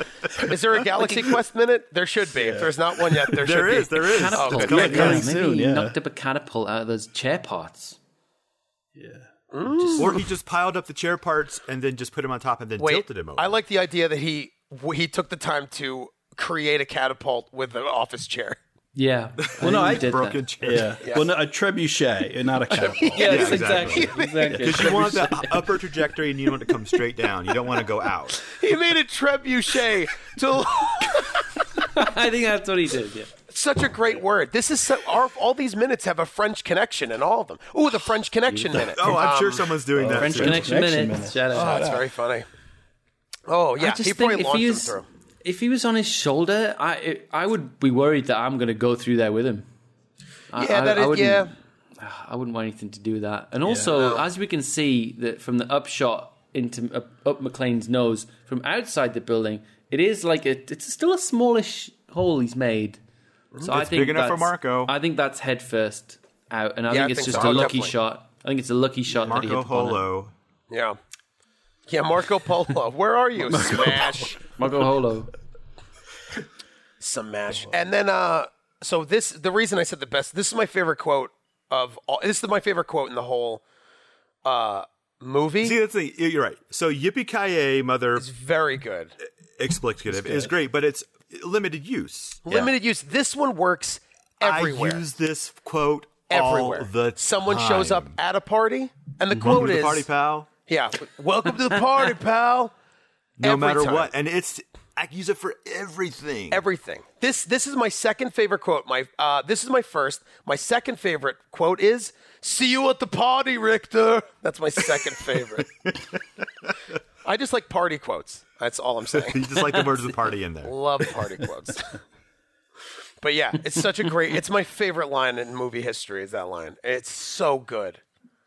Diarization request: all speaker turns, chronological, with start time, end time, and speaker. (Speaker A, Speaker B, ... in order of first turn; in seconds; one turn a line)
Speaker A: 0.3-5.2
Speaker B: 2.4-3.4
Speaker C: 3.4-5.3
Speaker D: 4.0-8.0
Speaker B: 4.6-6.0
Speaker B: 9.0-9.3
Speaker A: 9.5-10.2
Speaker C: 10.0-13.5
Speaker A: 12.8-18.6
Speaker D: 18.9-20.5
Speaker C: 19.4-21.1
Speaker B: 19.6-23.8
Speaker A: 22.7-25.1
Speaker D: 23.1-25.6
Speaker C: 23.1-28.5
Speaker B: 24.5-24.8
Speaker A: 28.4-31.6
Speaker D: 31.8-33.3
Speaker A: 33.5-39.8
Speaker D: 38.5-38.9
Speaker C: 38.9-40.8
Speaker B: 40.0-42.0
Speaker D: 40.0-41.9
Speaker A: 41.5-42.5
Speaker A: 43.5-45.0
Speaker D: 43.8-49.7
Speaker D: 50.5-63.0
Speaker A: 50.6-51.5
Speaker B: 53.6-53.9
Speaker A: 53.9-54.2
Speaker D: 63.6-70.0
Speaker C: 63.7-65.0
Speaker A: 66.9-67.9
Speaker C: 69.1-70.3
Speaker A: 70.7-71.0
Speaker A: 71.9-74.4
Speaker B: 73.5-74.3
Speaker D: 74.6-75.3
Speaker A: 77.0-83.6
Speaker A: 84.5-85.8
Speaker C: 85.6-88.2
Speaker A: 88.2-89.2
Speaker C: 89.6-92.7
Speaker B: 90.1-90.5
Speaker A: 92.5-95.0
Speaker C: 94.4-98.2
Speaker A: 96.3-100.1
Speaker C: 99.4-100.5
Speaker A: 100.7-102.7
Speaker C: 103.4-106.6
Speaker A: 103.4-104.1
Speaker A: 106.5-115.7
Speaker A: 117.2-119.9
Speaker C: 119.2-120.7
Speaker A: 120.6-122.0
Speaker A: 123.2-128.0